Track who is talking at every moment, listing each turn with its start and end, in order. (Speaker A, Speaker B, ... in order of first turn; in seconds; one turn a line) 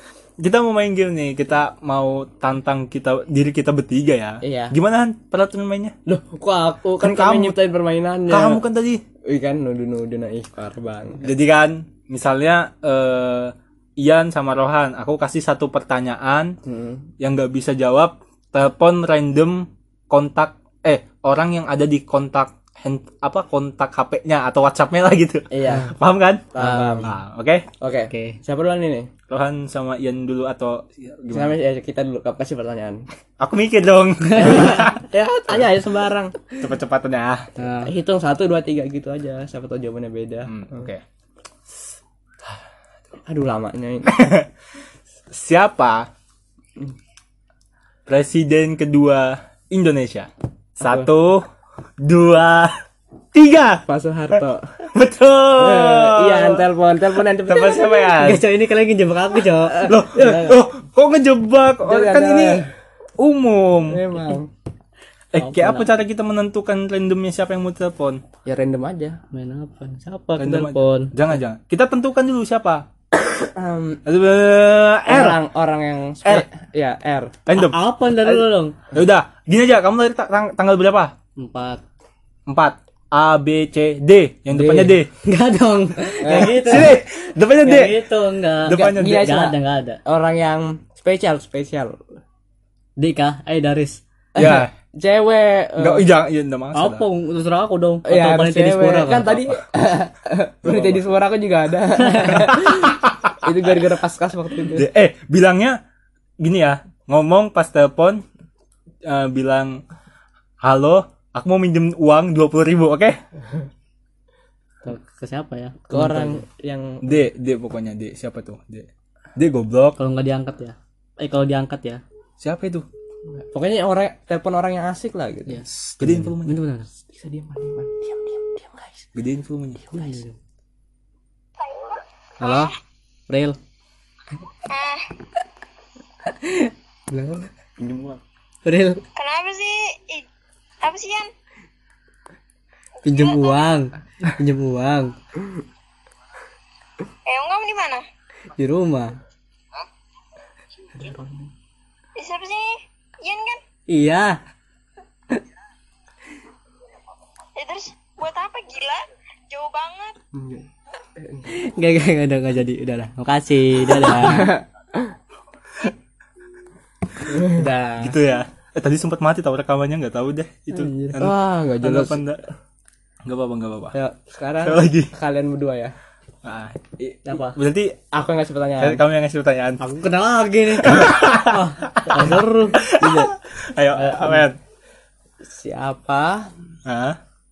Speaker A: 0.4-5.9
Speaker B: 4.4-4.8
Speaker B: 6.1-8.6
Speaker A: 7.0-7.6
Speaker A: 8.3-9.0
Speaker B: 9.2-11.3
Speaker A: 11.2-16.6
Speaker B: 16.6-17.1
Speaker A: 17.2-27.7
Speaker B: 25.5-25.9
Speaker B: 26.5-27.1
Speaker C: 26.6-27.1
Speaker B: 27.8-29.1
Speaker C: 28.1-28.4
Speaker A: 29.3-31.6
Speaker B: 31.3-33.0
Speaker A: 33.4-35.0
Speaker C: 34.4-34.6
Speaker B: 34.4-36.5
Speaker A: 36.6-37.5
Speaker C: 37.6-37.9
Speaker B: 37.8-40.9
Speaker A: 40.5-41.0
Speaker B: 43.3-44.2
Speaker A: 44.1-44.5
Speaker A: 45.3-46.1
Speaker A: 48.1-51.5
Speaker B: 50.8-51.1
Speaker A: 52.0-52.7
Speaker A: 53.3-53.8
Speaker B: 53.9-54.7
Speaker A: 54.9-56.7
Speaker B: 55.6-58.1
Speaker A: 57.3-58.4
Speaker C: 58.2-60.3
Speaker B: 59.7-60.6
Speaker A: 59.9-62.6
Speaker B: 61.8-62.7
Speaker A: 63.2-64.0
Speaker B: 63.9-64.5
Speaker A: 65.3-68.2
Speaker C: 65.4-65.9
Speaker B: 68.5-69.2
Speaker C: 69.3-71.2
Speaker A: 70.4-72.9
Speaker B: 73.4-74.0
Speaker A: 74.0-75.4
Speaker B: 75.1-77.3
Speaker A: 77.5-77.8
Speaker C: 77.5-78.8
Speaker A: 78.9-81.1
Speaker C: 81.4-81.8
Speaker A: 82.5-85.1
Speaker B: 84.5-85.0
Speaker C: 85.2-87.0
Speaker B: 86.2-86.8
Speaker A: 86.3-88.0
Speaker C: 87.6-90.0
Speaker A: 88.6-89.3
Speaker B: 88.7-92.0
Speaker C: 93.0-94.0
Speaker A: 94.4-94.7
Speaker B: 94.4-96.1
Speaker A: 95.8-97.0
Speaker C: 96.7-99.5
Speaker B: 98.0-104.9
Speaker A: 100.6-101.0
Speaker C: 102.1-102.4
Speaker A: 102.5-103.4
Speaker A: 104.7-105.8
Speaker A: 106.4-108.2
Speaker A: 109.0-109.8
Speaker A: 110.6-113.2
Speaker C: 114.8-116.4
Speaker B: 115.9-117.2
Speaker A: 117.0-120.0
Speaker C: 120.0-122.0
Speaker A: 122.4-122.9
Speaker B: 123.5-125.6
Speaker C: 125.5-126.9
Speaker A: 126.0-126.6
Speaker B: 127.0-129.1
Speaker A: 129.2-129.9
Speaker B: 129.9-130.2
Speaker C: 129.9-130.3
Speaker D: 131.6-132.7
Speaker C: 132.4-132.8
Speaker C: 133.3-133.6
Speaker D: 134.7-135.1
Speaker C: 136.3-137.3
Speaker B: 137.2-138.2
Speaker C: 138.7-139.0
Speaker D: 139.2-140.3
Speaker D: 140.8-141.3
Speaker D: 143.0-143.7
Speaker C: 143.0-145.2
Speaker D: 147.2-148.1
Speaker C: 148.6-149.2
Speaker B: 150.9-151.5
Speaker D: 152.2-153.6
Speaker C: 153.9-154.4
Speaker D: 157.6-160.2
Speaker B: 160.3-161.5
Speaker C: 161.5-164.6
Speaker B: 163.9-165.1
Speaker B: 167.3-168.1
Speaker A: 168.0-172.4
Speaker C: 170.7-171.2
Speaker B: 171.2-172.2
Speaker A: 173.2-174.0
Speaker B: 173.9-175.9
Speaker A: 174.6-175.1
Speaker A: 176.4-178.0
Speaker B: 178.1-179.0
Speaker A: 178.8-179.8
Speaker C: 179.8-182.8
Speaker A: 180.8-184.6
Speaker B: 182.9-183.3
Speaker B: 185.4-186.5
Speaker A: 186.8-187.2